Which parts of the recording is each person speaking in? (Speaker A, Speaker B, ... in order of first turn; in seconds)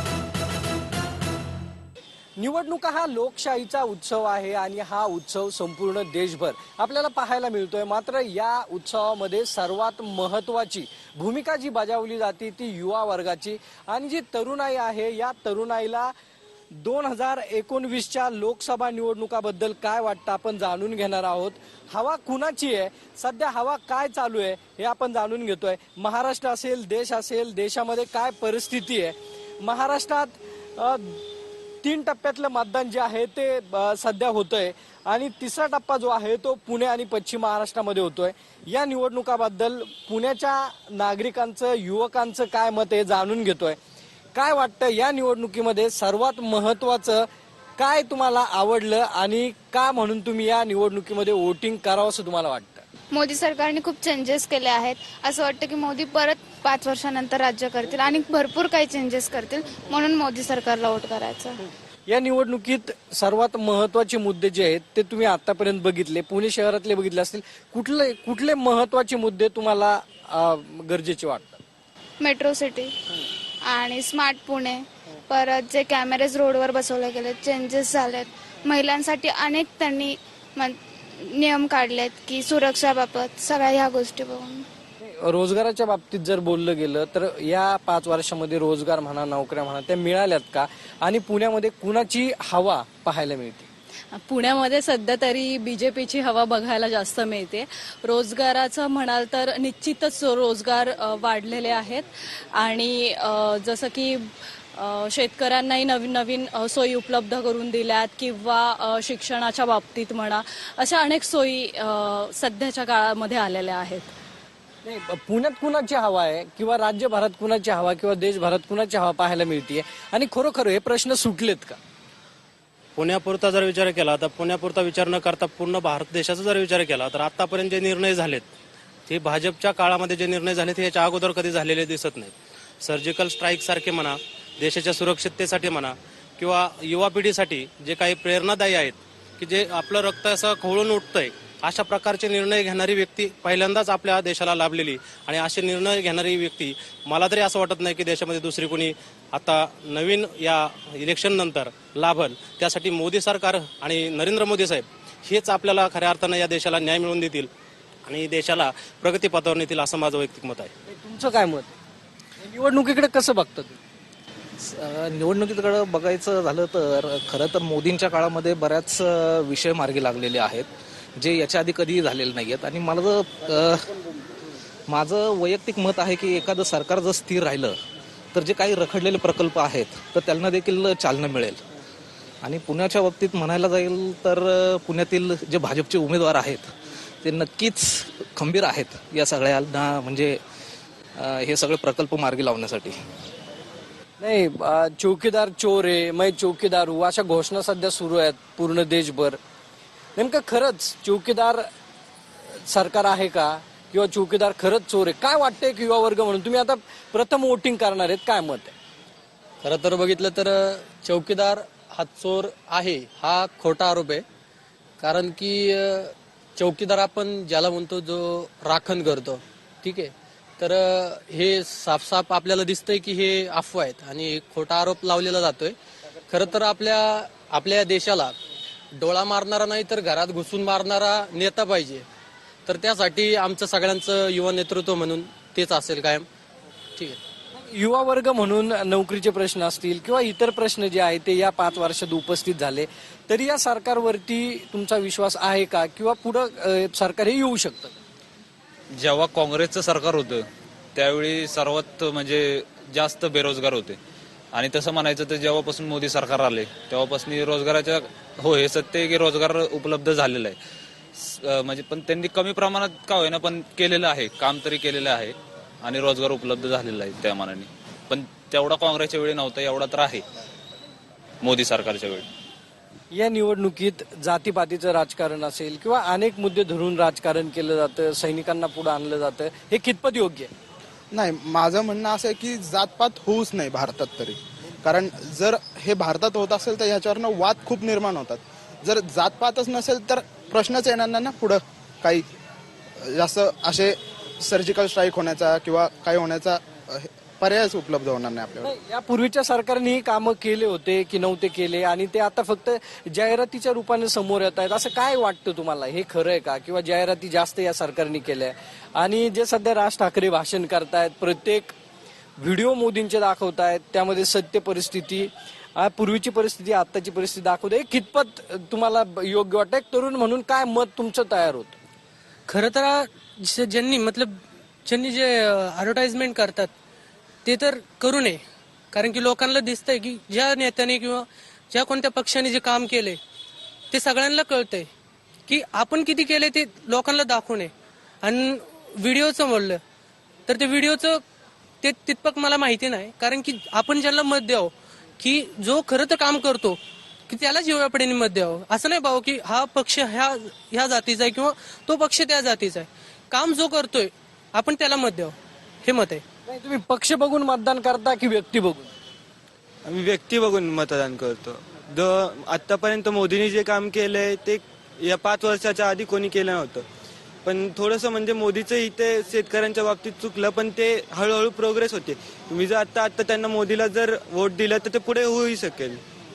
Speaker A: 2.4-16.1, 16.7-31.2, 31.8-43.8, 44.3-52.8, 62.1-71.6, 85.0-93.7, 114.8-121.8, 160.9-161.7, 162.4-163.8, 194.2-199.4, 200.2-201.7, 202.5-208.7, 237.5-247.9, 273.1-280.5, 298.6-311.7, 312.4-321.8, 356.5-358.9
Speaker B: 53.1-61.6, 72.2-72.9, 73.7-84.6
Speaker C: 94.2-114.1
Speaker D: 123.0-128.5, 129.1-132.3, 132.8-157.5, 158.1-160.7
Speaker E: 165.2-165.5, 166.0-166.3, 167.4-169.0, 169.5-170.6, 171.2-172.9, 175.0-177.5, 178.4-181.5, 182.7-184.3, 185.0-186.6, 188.4-190.2, 191.5-192.8
Speaker F: 209.6-214.2, 215.0-225.8, 226.3-228.3, 228.9-232.1, 232.7-236.2, 322.5-326.7, 327.4-328.4, 328.9-333.2, 333.9-334.9, 335.5-337.7, 338.2-339.8, 340.5-341.2, 341.8-355.3, 355.8-356.2
Speaker G: 248.9-254.0, 254.5-260.6, 261.2-270.2, 271.4-272.2
Speaker H: 281.1-292.3, 293.0-298.7
Speaker I: 359.9-366.8, 367.4-376.0